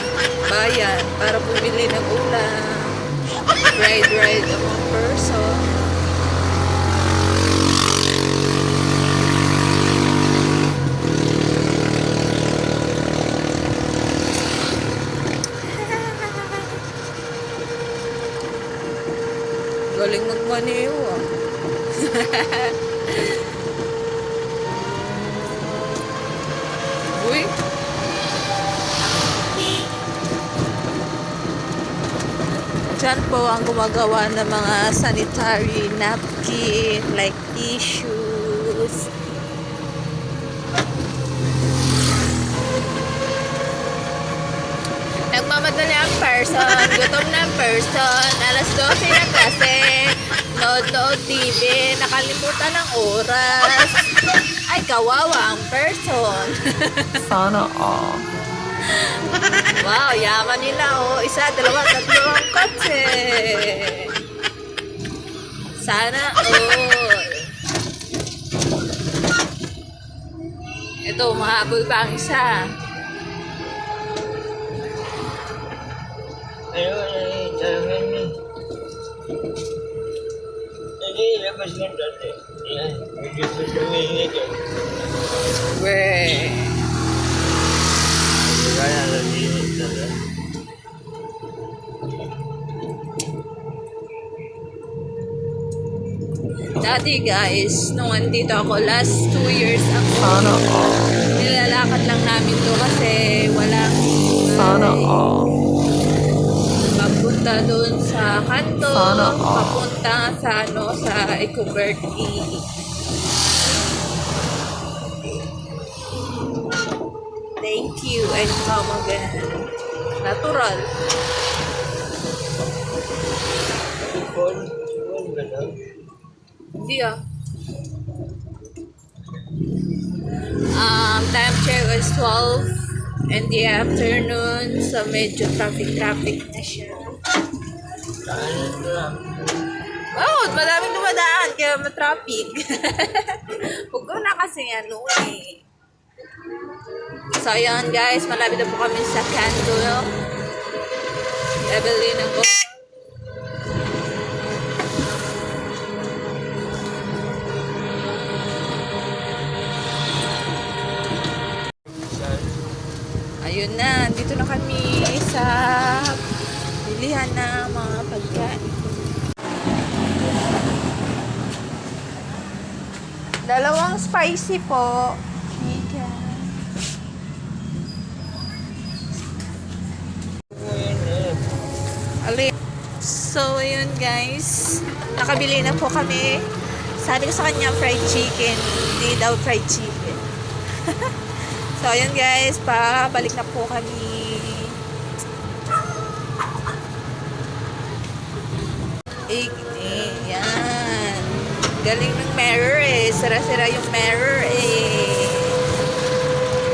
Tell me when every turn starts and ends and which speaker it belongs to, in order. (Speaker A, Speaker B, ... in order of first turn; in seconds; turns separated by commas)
Speaker A: 0.5-3.0, Speaker A: 3.7-5.7, Speaker A: 15.7-16.8, Speaker A: 19.9-21.3, Speaker A: 22.0-23.4, Speaker A: 27.1-27.5, Speaker A: 32.9-39.1, Speaker A: 45.3-54.1, Speaker A: 54.7-57.2, Speaker B: 57.2-58.3, Speaker A: 59.8-64.1, Speaker A: 65.8-67.5, Speaker A: 71.0-72.6, Speaker C: 76.7-78.4, Speaker C: 81.0-84.6, Speaker A: 85.7-86.8, Speaker C: 88.3-90.2, Speaker A: 96.8-100.6, Speaker B: 100.2-101.0, Speaker A: 101.3-105.2, Speaker B: 104.5-105.5, Speaker A: 106.8-112.7, Speaker B: 108.9-109.8, Speaker A: 117.6-119.7, Speaker A: 120.2-120.9, Speaker C: 124.1-125.8, Speaker A: 126.7-127.2, Speaker A: 130.7-132.8, Speaker A: 133.3-137.2, Speaker C: 138.2-139.3, Speaker A: 140.1-145.6, Speaker A: 147.3-150.1, Speaker A: 151.6-152.8, Speaker C: 162.1-162.6, Speaker A: 163.4-166.2, Speaker A: 166.8-168.9, Speaker A: 173.4-176.6, Speaker C: 180.5-181.4, Speaker A: 182.2-186.5, Speaker A: 187.0-190.2, Speaker A: 190.8-191.2, Speaker A: 191.8-194.8, Speaker A: 199.3-205.6